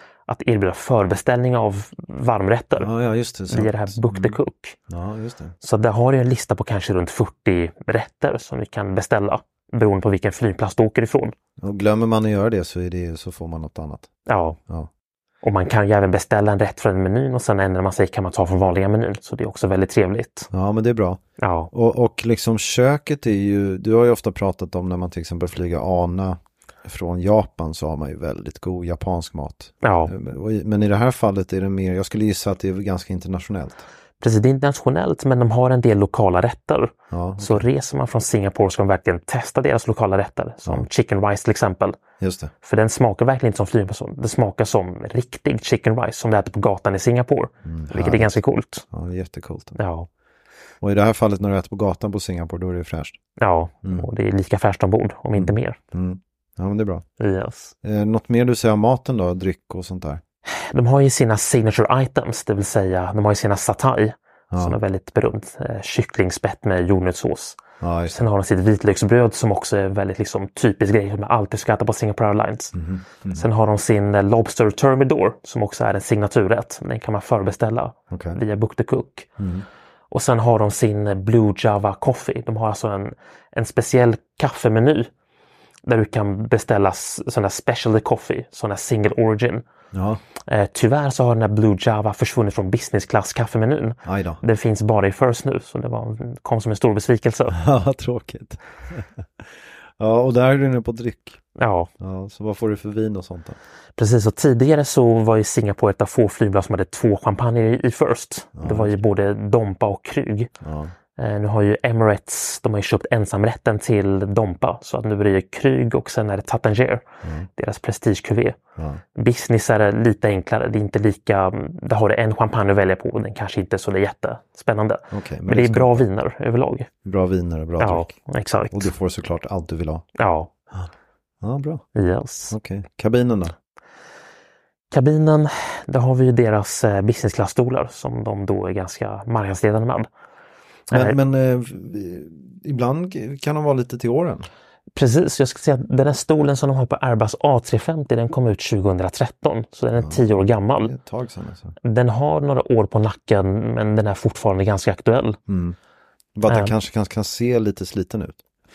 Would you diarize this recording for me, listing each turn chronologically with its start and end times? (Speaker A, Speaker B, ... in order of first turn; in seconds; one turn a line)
Speaker A: 0.3-2.9
Speaker B: 2.8-5.5
Speaker A: 3.5-4.8
Speaker A: 5.6-11.3
Speaker B: 11.6-14.1
Speaker A: 14.3-14.6
Speaker A: 15.4-20.5
Speaker B: 20.5-21.2
Speaker A: 21.4-21.7
Speaker B: 21.7-33.9
Speaker A: 29.8-30.1
Speaker A: 34.2-42.0
Speaker B: 37.1-37.7
Speaker B: 42.2-42.5
Speaker A: 42.6-48.9
Speaker B: 47.6-49.8
Speaker A: 49.8-50.1
Speaker B: 50.8-53.2
Speaker A: 53.4-55.8
Speaker B: 55.4-57.0
Speaker A: 57.2-57.7
Speaker B: 57.8-60.2
Speaker A: 60.5-67.6
Speaker B: 64.5-64.8
Speaker B: 67.8-68.2
Speaker A: 68.1-72.7
Speaker B: 72.7-73.5
Speaker A: 73.3-79.3
Speaker B: 78.1-78.4
Speaker B: 79.4-79.7
Speaker A: 80.1-85.1
Speaker A: 85.9-89.6
Speaker B: 89.9-90.2
Speaker A: 90.5-97.6
Speaker B: 94.0-94.4
Speaker B: 97.5-101.4
Speaker A: 101.6-101.9
Speaker B: 102.0-103.6
Speaker A: 104.0-110.5
Speaker B: 108.6-109.0
Speaker B: 110.6-110.9
Speaker A: 111.2-118.6
Speaker B: 117.2-117.5
Speaker B: 118.8-119.0
Speaker A: 119.1-126.9
Speaker B: 125.1-126.0
Speaker B: 127.0-130.1
Speaker A: 127.8-128.9
Speaker A: 130.2-130.5
Speaker B: 131.4-131.9
Speaker A: 131.9-132.6
Speaker B: 132.5-133.6
Speaker A: 134.9-140.1
Speaker A: 140.9-141.2
Speaker B: 140.9-144.5
Speaker A: 144.9-150.9
Speaker B: 149.9-151.8
Speaker A: 151.8-155.4
Speaker B: 155.5-155.8
Speaker B: 156.3-158.4
Speaker A: 156.5-156.7